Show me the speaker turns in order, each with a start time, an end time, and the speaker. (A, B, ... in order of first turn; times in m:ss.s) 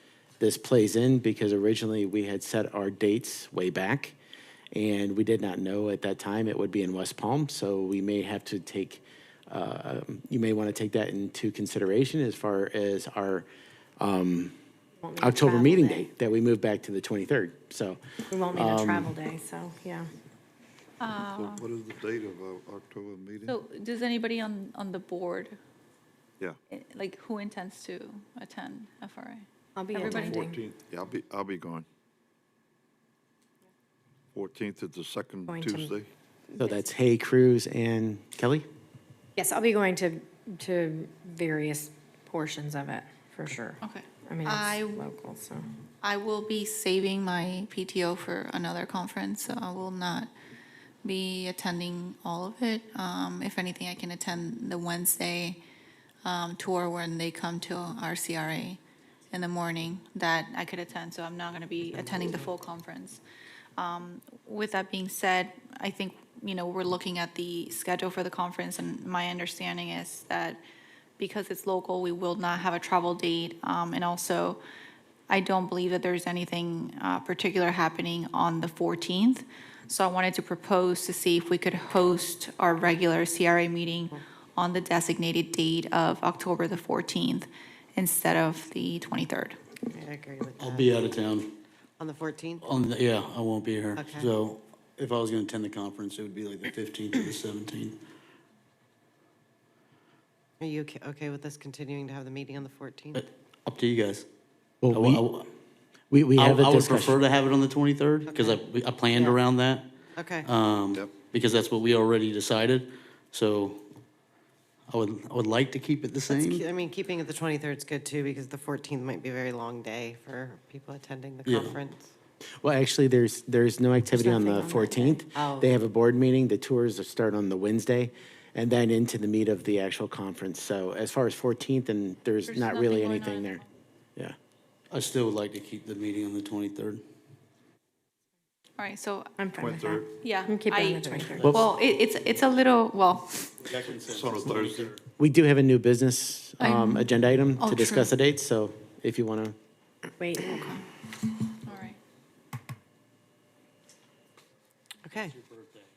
0:00.4-0:04.2 A
0:04.7-0:13.4 A
0:14.0-0:14.5 A
0:15.0-0:16.0 B
0:15.2-0:18.0 A
0:18.3-0:20.1 B
0:18.5-0:19.1 A
0:21.0-0:21.6 C
0:21.3-0:23.5 D
0:23.5-0:25.6 C
0:26.7-0:30.4 C
0:29.7-0:30.6 B
0:30.1-0:31.8 D
0:34.3-0:36.1 D
0:35.5-0:35.9 B
0:36.6-0:38.6 A
0:39.4-0:45.6 B
0:43.8-0:45.0 C
0:46.0-0:50.3 C
0:51.0-0:55.6 C
0:56.2-0:58.8 C
0:59.3-1:03.2 C
1:02.1-1:02.4 E
1:03.8-1:10.6 C
1:11.2-1:14.6 C
1:15.3-1:29.6 C
1:29.9-1:31.0 E
1:30.6-1:31.6 F
1:32.0-1:32.6 E
1:32.6-1:38.0 F
1:33.9-1:34.3 E
1:40.6-1:43.2 E
1:43.1-1:44.2 F
1:44.8-1:45.2 A
1:44.9-1:45.5 F
1:46.1-1:47.2 A
1:46.4-1:49.9 F
1:48.3-1:48.6 E
1:49.1-1:49.4 E
1:50.2-1:50.5 E
1:50.4-1:53.8 F
1:54.9-1:56.6 F
1:56.3-2:02.1 E
2:01.4-2:01.8 F
2:02.6-2:13.6 A
2:04.2-2:05.2 B
2:05.3-2:05.7 E
2:12.5-2:13.6 C
2:14.9-2:17.0 F
2:18.8-2:19.3 C
2:19.4-2:21.5 B
2:19.6-2:20.0 D
2:20.2-2:23.5 C
2:21.3-2:21.6 F
2:23.6-2:25.0 F
2:23.8-2:25.0 D
2:25.2-2:29.6 A
2:26.6-2:27.1 C
2:27.6-2:28.1 C
2:30.2-2:30.6 B
2:30.4-2:30.8 C
2:31.6-2:32.0 C
2:35.0-2:35.3 E
2:35.4-2:35.8 F